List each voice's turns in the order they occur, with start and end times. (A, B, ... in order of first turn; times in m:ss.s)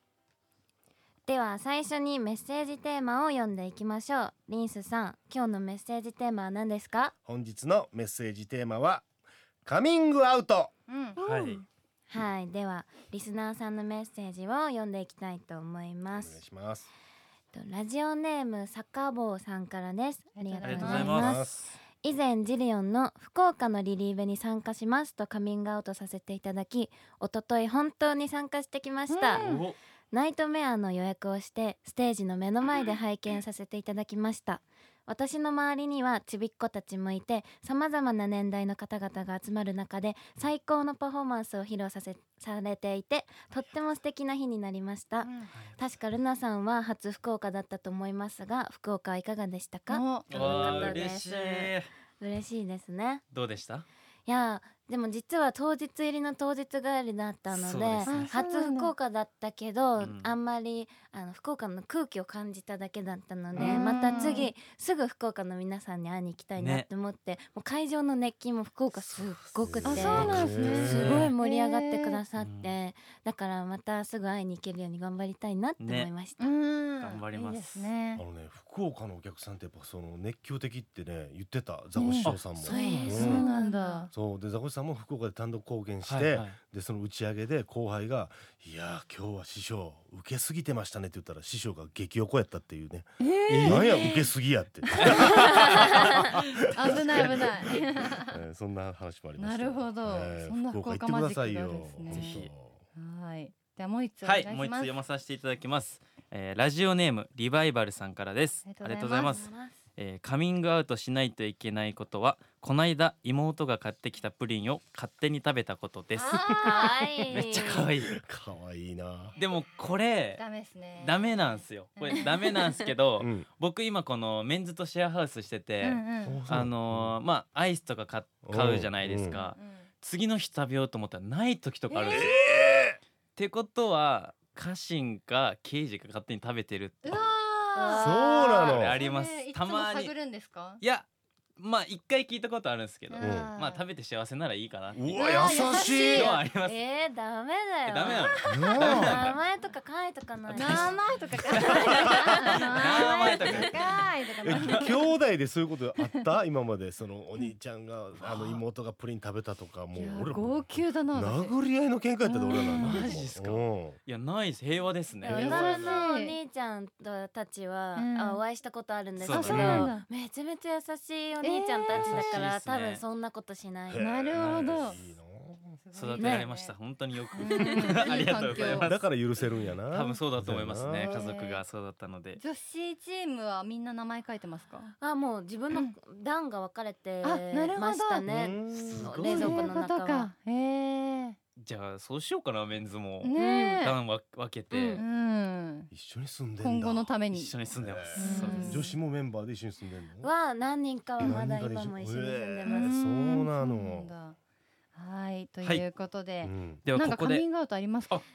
0:01.3-0:07.1 A
0:07.2-0:09.0 B
0:09.6-0:10.7 B
0:10.9-0:11.2 C
0:11.2-0:16.4 A
0:11.2-0:11.6 D
0:16.1-0:16.9 B
0:17.5-0:29.5 A
0:20.4-0:21.2 C
0:20.6-0:21.6 D
0:20.9-0:21.7 B
0:29.1-0:29.7 C
0:29.4-0:29.8 D
0:30.1-0:53.2 A
0:45.2-0:45.5 C
0:45.5-0:45.8 D
0:49.9-0:51.3 C
0:50.3-0:51.9 D
0:53.3-0:53.9 D
0:54.3-1:16.5 A
0:57.5-0:58.3 D
0:58.1-0:58.9 C
1:00.0-1:00.3 D
1:03.6-1:04.5 C
1:06.6-1:06.9 D
1:08.9-1:11.3 D
1:09.6-1:11.3 B
1:09.9-1:12.2 C
1:12.4-1:12.7 D
1:15.8-1:16.1 D
1:16.4-1:18.2 C
1:17.0-1:17.9 D
1:18.2-1:23.5 B
1:22.0-1:24.1 C
1:22.2-1:23.4 D
1:22.6-1:24.0 A
1:24.1-1:42.8 B
1:26.0-1:26.6 D
1:33.2-1:34.3 C
1:33.5-1:34.1 D
1:34.8-1:38.4 C
1:35.0-1:36.3 D
1:39.4-1:42.4 C
1:42.1-1:42.5 D
1:43.0-1:45.0 C
1:44.2-1:58.2 D
1:48.6-1:49.4 C
1:49.1-1:49.8 A
1:56.2-1:57.2 C
1:56.4-1:57.9 A
1:57.5-1:59.4 B
1:59.4-2:00.4 D
2:00.4-2:01.4 C
2:01.0-2:12.3 D
2:02.0-2:02.8 C
2:03.2-2:03.5 B
2:05.8-2:06.4 C
2:06.2-2:07.2 B
2:08.4-2:09.4 B
2:09.3-2:09.8 C
2:11.9-2:12.6 C
2:12.1-2:13.0 B
2:13.4-2:17.3 D
2:17.0-2:20.8 C
2:17.8-2:18.8 A
2:18.0-2:19.0 B
2:18.6-2:20.1 D
2:20.8-2:21.1 D
2:21.6-2:26.8 D
2:23.1-2:23.8 C
2:23.2-2:23.5 B
2:25.0-2:26.4 B
2:25.1-2:26.4 C
2:26.6-2:31.0 A
2:27.9-2:29.4 D
2:28.2-2:28.9 C
2:28.5-2:29.2 B
2:30.5-2:35.1 C
2:30.6-2:30.9 D
2:31.5-2:34.9 D
2:31.6-2:32.6 A
2:34.4-2:44.0 B
2:38.2-2:38.6 D
2:39.9-2:41.5 C
2:42.3-2:43.2 C
2:42.6-2:46.0 D
2:45.2-2:46.4 C
2:45.2-2:54.1 A
2:45.3-2:46.0 B
2:48.0-2:48.4 C
2:49.2-2:49.8 D
2:49.3-2:50.1 C
2:49.5-2:49.9 B
2:51.4-2:52.4 C
2:51.9-2:53.0 D
2:53.9-2:55.8 B
2:54.0-2:55.0 C
2:54.3-2:55.0 D
2:55.8-2:56.8 C
2:55.9-3:02.4 D
2:56.2-2:56.5 A
2:57.3-2:58.9 C
2:57.6-2:58.0 A
2:58.6-3:01.2 B
3:01.0-3:01.6 C
3:02.4-3:04.9 C
3:05.0-3:10.3 A
3:07.2-3:08.3 C
3:08.3-3:09.2 B
3:08.7-3:09.7 D
3:09.2-3:11.4 C
3:11.6-3:15.0 D
3:13.2-3:14.0 C
3:13.4-3:13.8 A
3:14.7-3:15.0 A
3:14.9-3:15.9 C
3:15.9-3:20.3 B
3:16.6-3:17.5 C
3:17.3-3:18.8 D
3:18.2-3:19.0 C
3:18.3-3:18.7 A
3:20.2-3:22.9 A
3:21.2-3:24.1 B
3:22.6-3:24.4 C
3:25.0-3:28.1 C
3:26.4-3:26.8 B
3:26.8-3:27.5 D